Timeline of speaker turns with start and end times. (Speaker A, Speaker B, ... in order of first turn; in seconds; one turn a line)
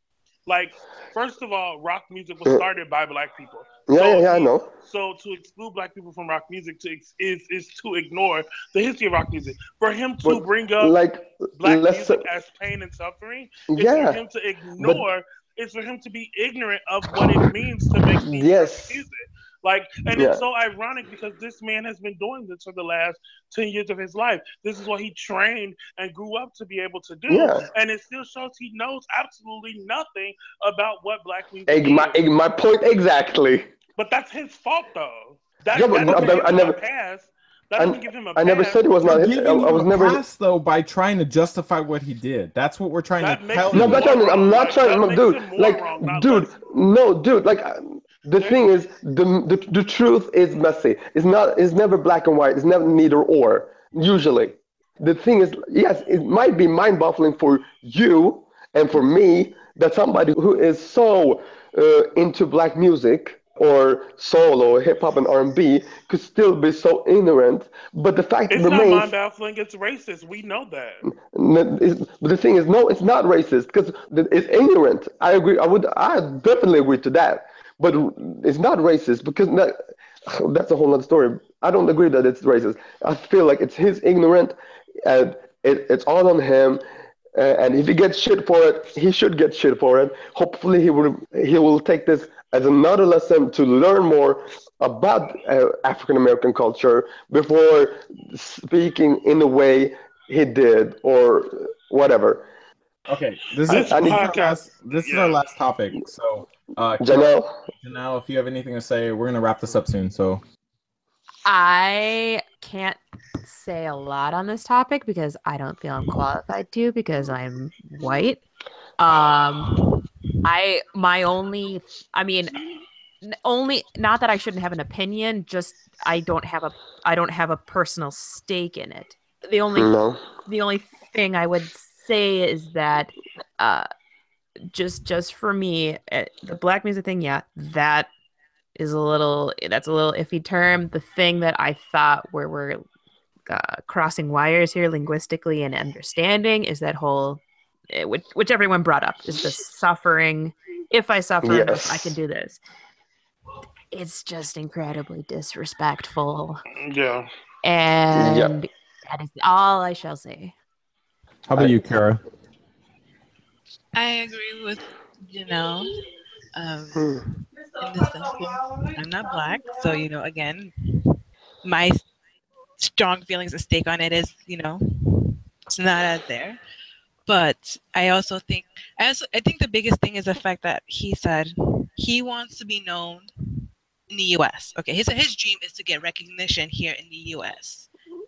Speaker A: 0.5-11.0
Speaker B: 3.9-4.7
Speaker B: 10.2-12.2
Speaker A: 11.6-32.2
Speaker B: 13.7-14.2
Speaker B: 14.8-15.0
Speaker B: 18.2-19.0
Speaker B: 20.1-20.4
Speaker B: 27.3-27.6
Speaker B: 31.7-33.7
Speaker A: 34.0-38.8
Speaker B: 35.7-36.8
Speaker C: 36.0-36.4
Speaker B: 37.8-40.2
Speaker C: 39.0-44.1
Speaker A: 43.2-46.5
Speaker B: 43.7-69.1
Speaker A: 68.5-71.0
Speaker B: 71.0-86.8
Speaker B: 87.3-102.4
Speaker C: 103.0-110.4
Speaker A: 103.7-105.4
Speaker B: 103.7-104.3
Speaker B: 107.0-107.7
Speaker D: 111.4-118.4
Speaker D: 119.0-119.7
Speaker D: 120.4-122.7
Speaker D: 123.2-133.9
Speaker B: 129.7-130.2
Speaker D: 134.7-138.1
Speaker D: 138.8-142.8
Speaker D: 143.5-152.6
Speaker B: 151.4-152.1
Speaker D: 153.9-156.6
Speaker A: 156.7-157.3
Speaker D: 157.6-160.5
Speaker B: 158.1-158.5
Speaker C: 161.5-162.2
Speaker E: 163.9-165.9
Speaker E: 166.5-167.2
Speaker E: 167.8-171.1
Speaker E: 171.6-172.0
Speaker E: 172.8-176.6
Speaker E: 177.2-183.3
Speaker E: 184.1-187.9